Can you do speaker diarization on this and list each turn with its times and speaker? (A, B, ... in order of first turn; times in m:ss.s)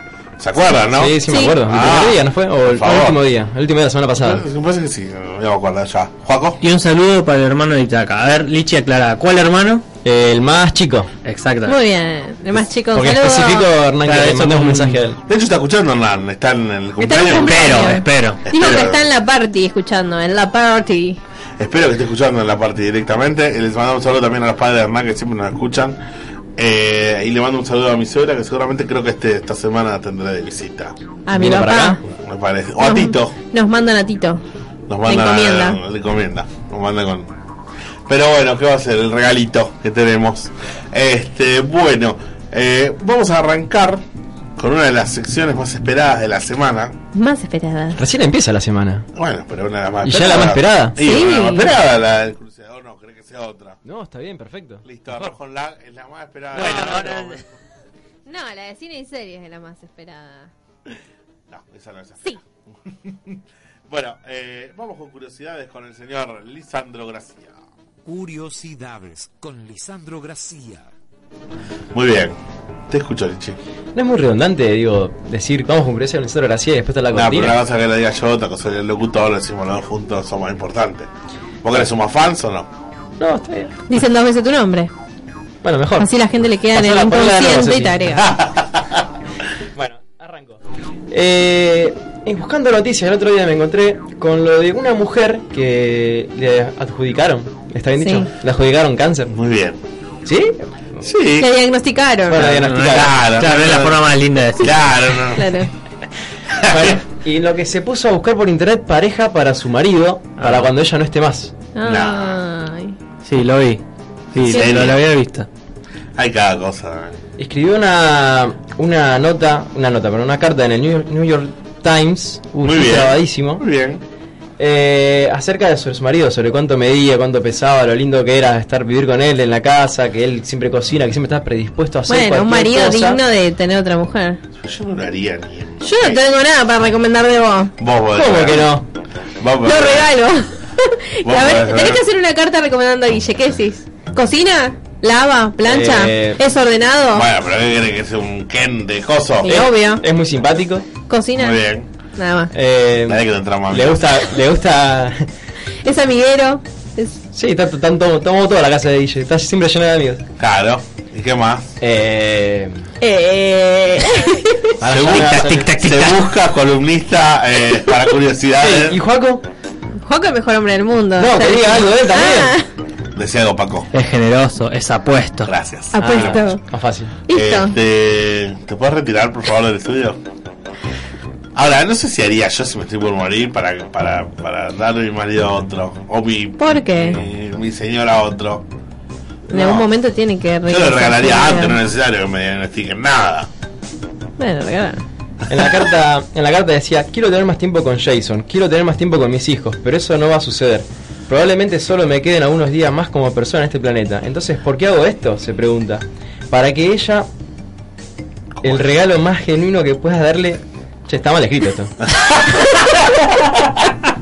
0:00.4-0:03.2 A
0:00.9-0:04.4 B
0:01.3-0:01.6 C
0:04.2-0:06.6 A
0:06.6-0:09.8 D
0:10.0-0:11.1 B
0:11.2-0:11.8 D
0:11.6-0:13.7 C
0:12.9-0:15.2 B
0:14.0-0:15.0 D
0:15.3-0:19.0 A
0:17.0-0:21.2 C
0:17.2-0:18.4 D
0:21.6-0:26.0 A
0:26.6-0:30.9 A
0:31.2-0:32.0 C
0:31.3-0:32.0 B
0:32.1-0:33.3 A
0:32.8-0:34.4 C
0:34.9-0:37.3 A
0:35.0-0:35.8 C
0:38.1-0:44.0 A
0:44.6-0:47.0 A
0:47.1-0:48.0 C
0:48.0-0:49.1 B
0:49.1-0:53.8 A
0:50.0-0:51.0 B
0:51.0-0:51.7 C
0:53.8-0:54.8 B
0:54.8-0:57.6 A
0:56.5-0:57.4 D
0:58.2-1:00.5 C
1:01.5-1:07.6 A
1:08.0-1:10.9 E
1:11.9-1:12.4 A
1:12.9-1:13.6 A
1:13.9-1:17.6 B
1:17.1-1:21.1 A
1:21.6-1:22.7 A
1:23.2-1:23.7 B
1:23.9-1:24.9 C
1:25.6-1:26.1 B
1:26.0-1:28.3 C
1:26.7-1:28.1 B
1:28.2-1:29.0 A
1:29.7-1:30.6 B
1:31.1-1:39.3 B
1:38.0-1:38.3 C
1:39.3-1:39.8 A
1:40.2-1:41.0 B
1:41.0-1:41.5 A
1:41.4-1:42.4 C
1:42.3-1:43.1 B
1:42.3-1:45.2 D
1:42.8-1:45.7 A
1:45.3-1:45.7 C
1:46.5-1:47.0 A
1:46.7-1:51.5 B
1:50.4-1:50.7 D
1:51.8-1:53.0 C
1:51.8-1:52.4 A
1:53.2-1:53.8 D
1:54.3-1:55.5 D
1:54.3-1:55.0 A
1:56.2-1:57.2 A
1:57.4-2:03.6 B
2:02.6-2:04.0 A
2:04.6-2:13.2 B
2:12.1-2:14.4 C
2:14.6-2:16.2 A
2:15.8-2:17.7 C
2:17.8-2:18.8 A
2:18.1-2:18.8 B
2:19.4-2:20.1 A
2:19.6-2:27.3 C
2:21.2-2:22.0 A
2:25.6-2:26.4 B
2:27.1-2:29.7 A
2:29.4-2:30.0 C
2:29.5-2:30.8 B
2:31.1-2:31.6 C
2:31.4-2:31.9 A
2:32.2-2:32.5 C
2:32.5-2:35.3 B
2:33.1-2:34.3 A
2:35.8-2:37.2 C
2:37.3-2:40.2 B
2:40.4-2:41.8 A
2:41.8-2:42.8 B
2:43.0-2:44.7 C
2:44.8-2:45.7 B
2:44.8-2:49.0 A
2:44.9-2:46.2 D
2:48.6-2:49.4 B
2:50.0-2:52.7 C
2:51.2-2:52.6 B
2:53.1-2:53.9 A
2:53.9-2:55.5 D
2:55.4-2:56.4 A
2:55.9-2:56.6 C
2:56.0-2:57.1 B
2:57.3-2:57.8 C
2:57.3-3:00.2 A
3:01.5-3:08.6 A
3:06.6-3:07.2 C
3:09.5-3:09.9 A
3:09.5-3:11.8 C
3:10.6-3:13.5 A
3:14.4-3:15.0 C
3:15.5-3:27.3 B
3:15.5-3:15.8 A
3:28.6-3:31.9 B
3:32.1-3:33.9 A